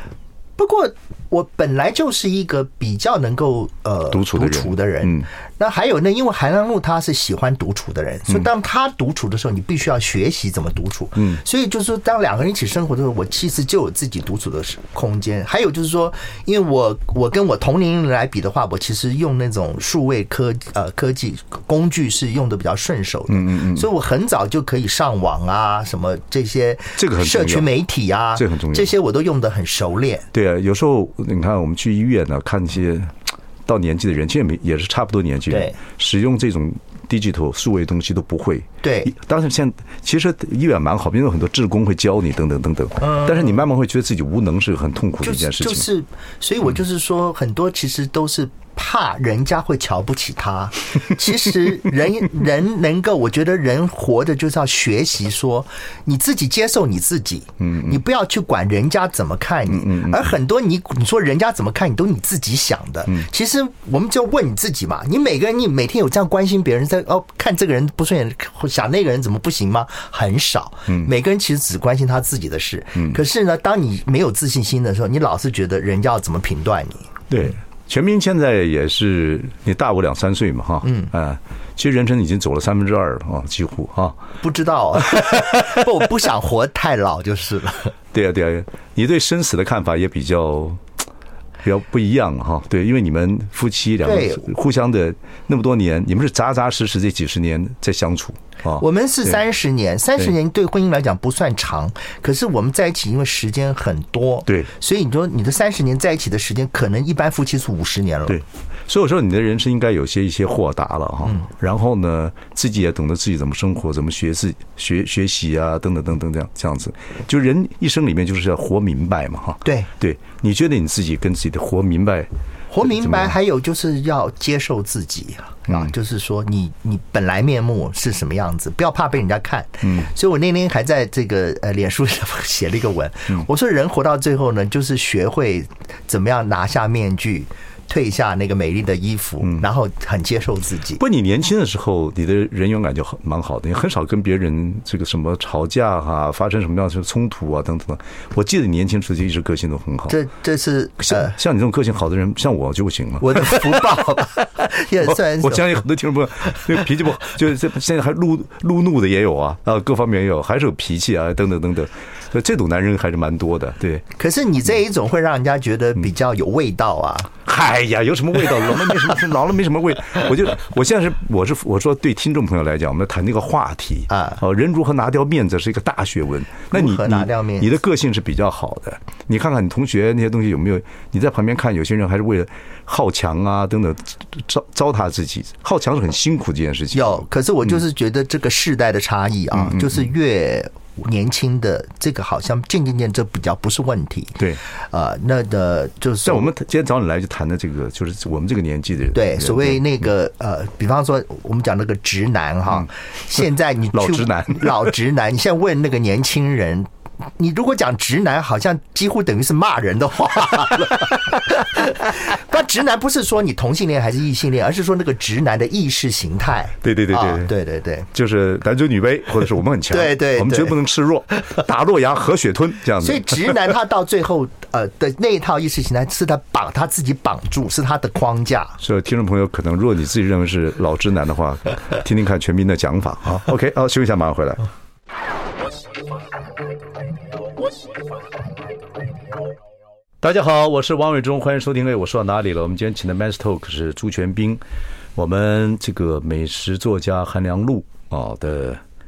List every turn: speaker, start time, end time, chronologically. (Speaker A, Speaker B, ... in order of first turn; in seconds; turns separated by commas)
Speaker A: 0.6-30.3, Speaker B: 4.1-5.2, Speaker B: 23.3-23.9, Speaker B: 27.0-27.7, Speaker B: 28.4-28.9, Speaker B: 30.3-45.9, Speaker A: 35.5-35.8, Speaker A: 38.8-39.1, Speaker A: 43.0-43.5, Speaker A: 45.2-77.1, Speaker B: 57.6-58.0, Speaker B: 59.7-60.4, Speaker B: 77.3-84.2, Speaker A: 80.8-81.1, Speaker A: 84.4-87.9, Speaker B: 88.1-90.8, Speaker B: 91.6-99.4, Speaker A: 94.0-94.5, Speaker A: 98.8-108.4, Speaker B: 108.3-122.3, Speaker A: 119.6-119.9, Speaker A: 122.7-141.0, Speaker B: 122.8-123.3, Speaker B: 141.0-150.2, Speaker A: 150.1-151.3, Speaker B: 151.0-154.2, Speaker A: 153.2-155.8, Speaker B: 155.0-164.1, Speaker A: 164.2-167.3, Speaker B: 167.4-187.2, Speaker A: 174.1-174.4, Speaker A: 176.7-177.7, Speaker A: 186.9-196.5, Speaker B: 189.5-190.1, Speaker B: 196.2-199.8, Speaker A: 199.1-218.1, Speaker B: 203.9-204.9, Speaker B: 216.8-217.5, Speaker B: 218.1-223.7, Speaker A: 219.9-220.8, Speaker A: 223.0-228.8, Speaker B: 228.8-234.6, Speaker B: 240.2-244.6, Speaker B: 245.1-248.8